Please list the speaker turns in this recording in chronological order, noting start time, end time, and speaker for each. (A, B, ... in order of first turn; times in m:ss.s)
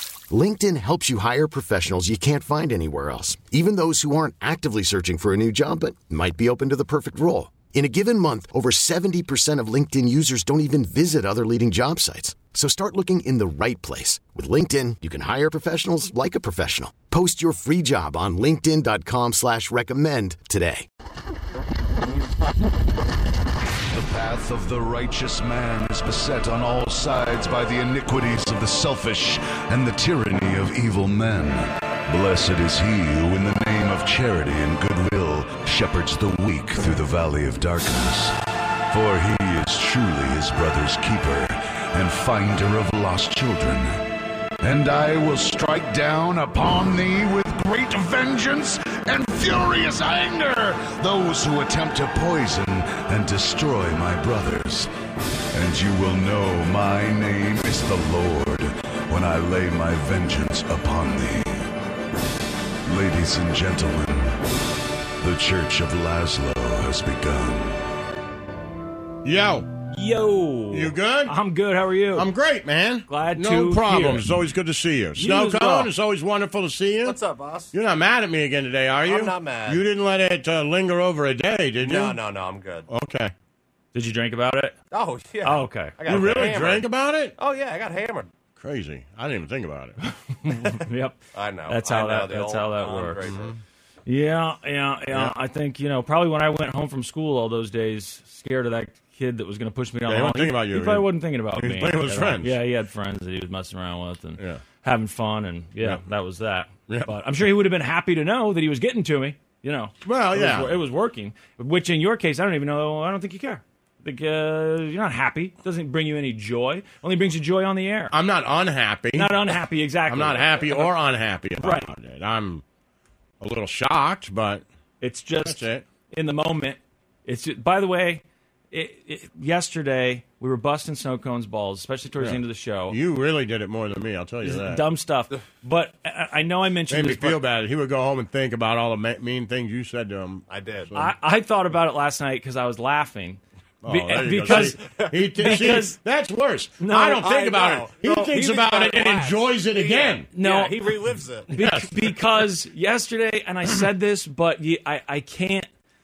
0:00.3-0:20.8 A
0:23.9-0:38.4 B
0:38.9-0:43.9 B
0:44.6-0:54.9 B
0:55.5-1:01.7 B
1:02.8-1:04.3 B
1:05.2-1:07.8 B
1:09.2-1:09.7 C
1:09.9-1:12.3 D
1:10.7-1:11.4 C
1:12.1-1:17.2 C
1:13.1-1:14.2 D
1:15.2-1:15.9 D
1:17.0-1:17.7 E
1:17.7-1:22.2 C
1:19.0-1:19.8 E
1:21.8-1:22.9 E
1:22.9-1:23.3 C
1:23.9-1:24.7 D
1:24.9-1:28.3 E
1:25.4-1:26.0 D
1:26.0-1:27.3 C
1:28.6-1:30.0 C
1:30.4-1:33.2 D
1:31.3-1:33.6 E
1:33.2-1:33.6 C
1:34.0-1:58.1 D
1:35.1-1:35.4 C
1:40.0-1:42.6 C
1:44.4-1:44.6 C
1:50.0-1:50.8 C
1:58.1-2:02.6 C
1:59.1-2:01.0 D
2:01.6-2:01.9 D
2:03.4-2:04.6 C
2:05.0-2:13.0 D
2:05.4-2:05.8 C
2:12.2-2:14.9 C
2:14.4-2:17.4 D
2:16.9-2:21.1 C
2:20.5-2:20.9 E
2:20.9-2:24.8 D
2:23.8-2:30.3 C
2:24.5-2:25.7 E
2:25.3-2:26.0 D
2:26.8-2:27.2 D
2:26.9-2:31.5 E
2:30.3-2:30.8 D
2:31.5-2:35.7 D
2:31.5-2:32.2 C